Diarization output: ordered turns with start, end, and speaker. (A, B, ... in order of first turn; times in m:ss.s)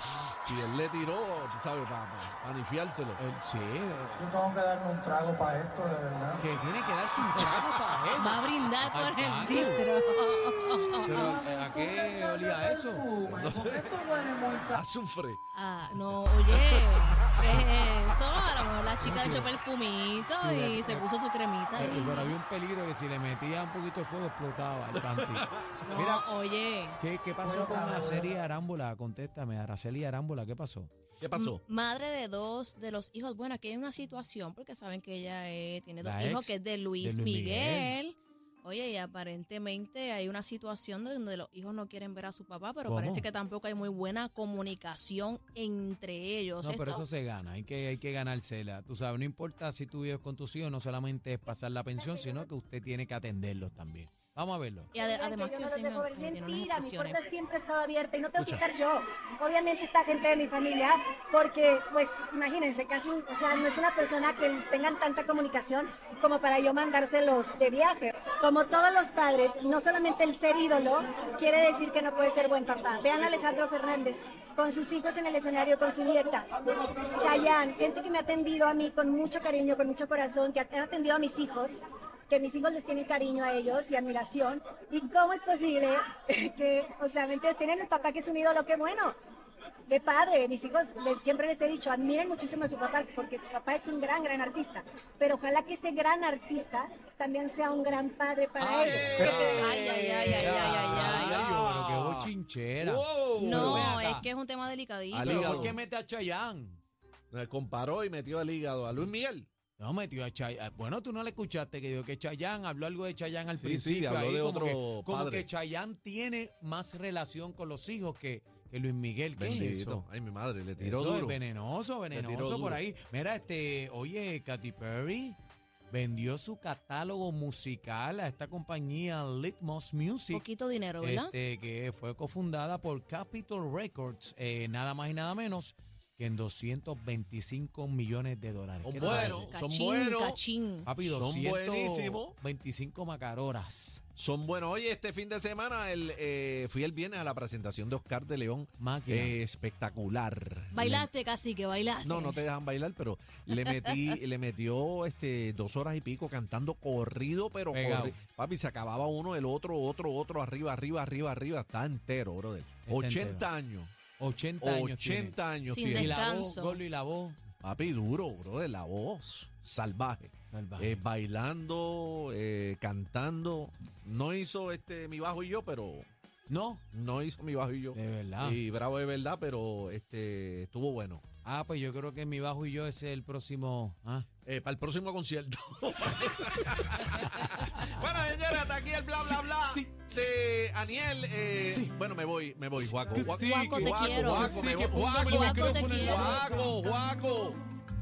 0:00.3-0:03.2 A
0:03.2-0:04.4 B
0:04.4-0:06.4 C
0:06.4-0:09.8 B
0:08.2-0:11.4 D
0:11.0-0:13.1 B
0:11.8-0:14.8 C
0:13.2-0:15.4 A
0:15.5-0:22.4 D
0:16.5-0:17.4 A
0:19.0-0:19.6 B
0:20.2-0:21.1 B
0:21.8-0:26.3 B
0:25.1-0:25.9 A
0:25.8-0:27.0 D
0:27.0-0:30.9 B
0:27.4-0:28.2 C
0:31.2-0:31.6 A
0:31.3-0:47.0 D
0:36.0-0:38.0 B
0:42.8-0:43.3 B
0:46.6-0:54.9 B
0:54.9-0:57.2 D
0:55.0-1:29.2 E
1:29.9-1:39.7 E
1:38.6-1:44.0 A
1:38.6-1:39.8 B
1:39.3-1:41.5 D
1:40.4-1:44.3 B
1:43.4-1:45.7 D
1:45.1-1:45.8 A
1:45.2-1:46.8 B
1:47.3-1:49.5 A
1:49.8-2:00.1 B
1:53.6-1:55.5 A
1:59.4-2:01.4 A
2:00.8-2:05.4 B
2:02.1-2:02.8 A
2:05.9-2:10.5 B
2:10.3-2:11.3 D
2:11.0-2:19.5 B
2:18.8-2:20.4 A
2:19.0-2:20.9 D
2:20.8-2:24.0 B
2:21.0-2:22.4 A
2:24.1-2:31.0 A
2:28.8-2:29.4 B
2:30.7-2:32.4 D
2:32.0-2:43.9 A
2:33.7-2:34.1 D
2:37.7-2:38.2 B
2:42.9-2:43.5 B
2:44.2-2:45.4 B
2:44.6-2:46.2 A
2:45.6-2:46.8 D
2:45.9-2:47.4 B
2:47.6-2:56.1 A
2:50.5-2:51.0 B
2:56.5-2:56.8 B
2:56.9-3:01.2 A
2:57.9-2:58.6 B
3:01.4-3:04.3 B
3:04.5-3:17.6 A
3:07.4-3:08.1 B
3:09.1-3:10.2 B
3:11.5-3:11.9 B
3:12.7-3:17.7 B
3:13.2-3:16.6 D